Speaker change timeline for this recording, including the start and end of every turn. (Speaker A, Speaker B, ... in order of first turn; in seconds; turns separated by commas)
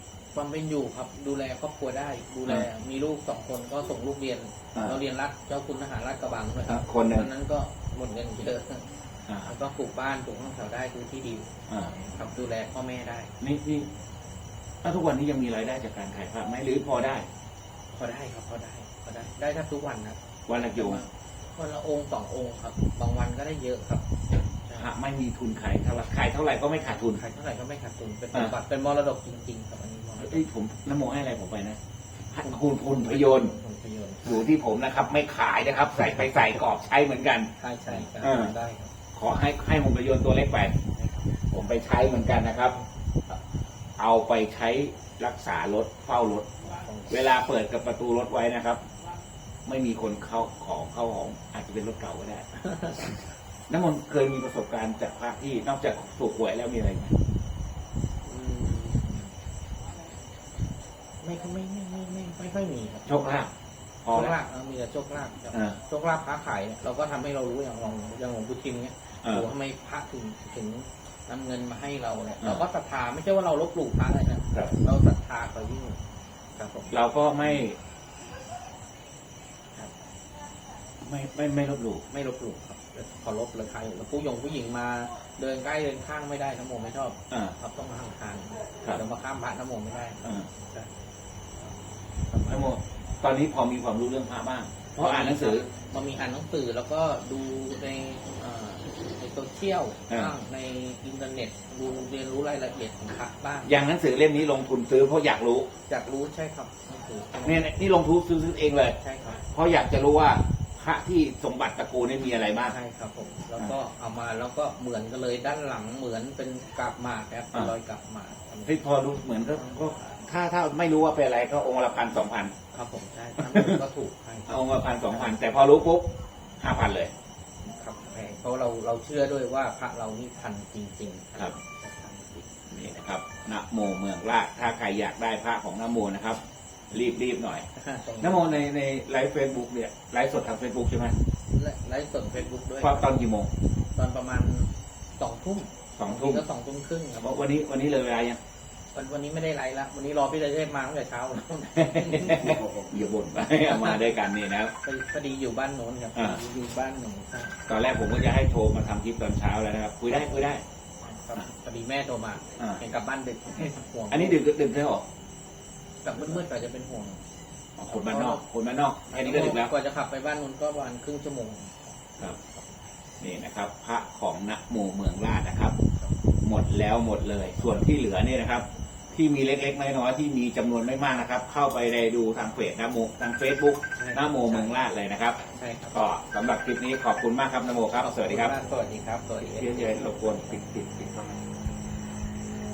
Speaker A: 0.3-8.9, Speaker B: 6.7-7.3, Speaker A: 9.4-13.3, Speaker B: 11.7-11.9, Speaker B: 13.4-13.9, Speaker B: 14.8-17.3, Speaker A: 17.9-24.1, Speaker B: 20.5-21.0, Speaker A: 24.6-24.9, Speaker B: 24.8-27.2, Speaker A: 27.1-30.4, Speaker B: 30.2-31.8, Speaker B: 32.3-33.5, Speaker A: 32.4-34.5, Speaker B: 34.2-37.5, Speaker A: 36.0-36.4, Speaker A: 37.6-38.9, Speaker B: 38.0-38.5, Speaker B: 39.1-40.8, Speaker A: 40.9-41.4, Speaker B: 41.5-42.8, Speaker B: 44.0-48.8, Speaker A: 46.7-47.2, Speaker B: 49.6-53.1, Speaker A: 52.6-53.2, Speaker B: 53.7-57.1, Speaker A: 58.2-59.3, Speaker A: 61.2-63.2, Speaker B: 63.0-63.5, Speaker B: 64.0-64.3, Speaker A: 64.1-76.0, Speaker B: 65.5-65.8, Speaker B: 69.2-69.5, Speaker A: 76.6-77.6, Speaker B: 76.9-77.8, Speaker B: 81.0-82.0, Speaker A: 82.1-90.9, Speaker A: 92.3-92.7, Speaker B: 92.5-95.7, Speaker A: 95.0-103.7, Speaker B: 100.1-100.3, Speaker B: 103.6-105.7, Speaker A: 105.9-107.8, Speaker B: 107.4-112.8, Speaker A: 109.0-109.5, Speaker A: 112.7-118.8, Speaker B: 118.7-122.5, Speaker A: 119.5-120.0, Speaker A: 122.7-124.5, Speaker B: 123.4-123.8, Speaker B: 124.5-127.1, Speaker A: 125.1-125.3, Speaker A: 127.6-132.5, Speaker B: 132.7-136.4, Speaker B: 136.9-137.7, Speaker A: 137.8-138.6, Speaker B: 138.2-141.2, Speaker A: 141.6-143.2, Speaker B: 142.8-143.5, Speaker A: 143.9-147.3, Speaker B: 146.0-146.4, Speaker B: 147.2-148.4, Speaker A: 148.9-152.8, Speaker B: 151.8-154.7, Speaker A: 153.5-154.1, Speaker A: 154.8-157.6, Speaker B: 156.1-156.4, Speaker B: 157.7-160.6, Speaker A: 160.1-160.4, Speaker A: 161.0-164.4, Speaker B: 164.1-165.0, Speaker A: 166.0-167.2, Speaker B: 167.8-169.7, Speaker A: 167.9-168.4, Speaker A: 169.1-172.6, Speaker B: 173.2-175.8, Speaker B: 176.4-185.4, Speaker A: 183.9-184.8, Speaker A: 185.5-186.0, Speaker B: 185.9-188.5, Speaker A: 187.9-190.6, Speaker B: 189.4-191.4